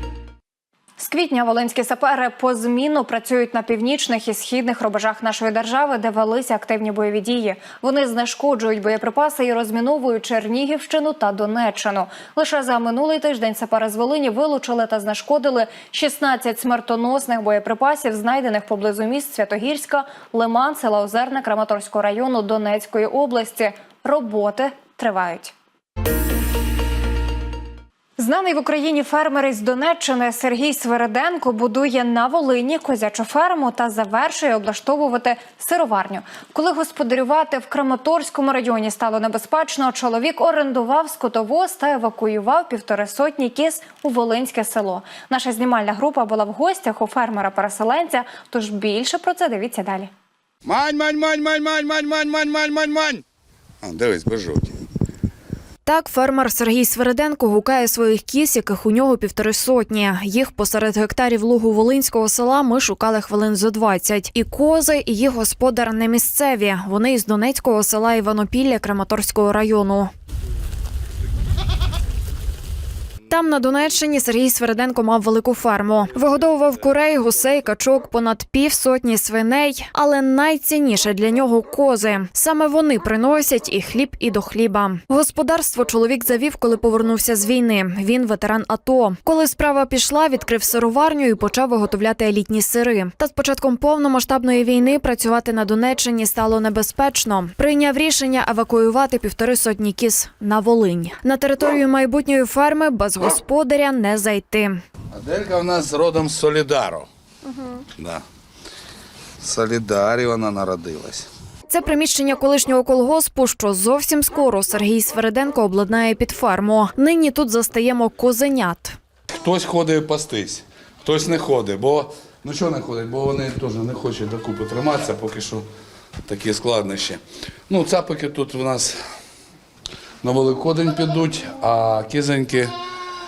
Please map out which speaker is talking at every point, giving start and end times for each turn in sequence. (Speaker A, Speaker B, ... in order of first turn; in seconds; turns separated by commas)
Speaker A: 1.0-25.5, Speaker A: 28.2-50.1, Speaker B: 50.6-53.2, Speaker B: 53.8-54.8, Speaker C: 55.9-70.1, Speaker C: 73.3-104.8, Speaker B: 105.1-107.1, Speaker B: 108.0-108.2, Speaker B: 109.4-111.3, Speaker C: 111.7-119.0, Speaker B: 119.3-125.7, Speaker B: 126.3-129.0, Speaker B: 130.2-132.7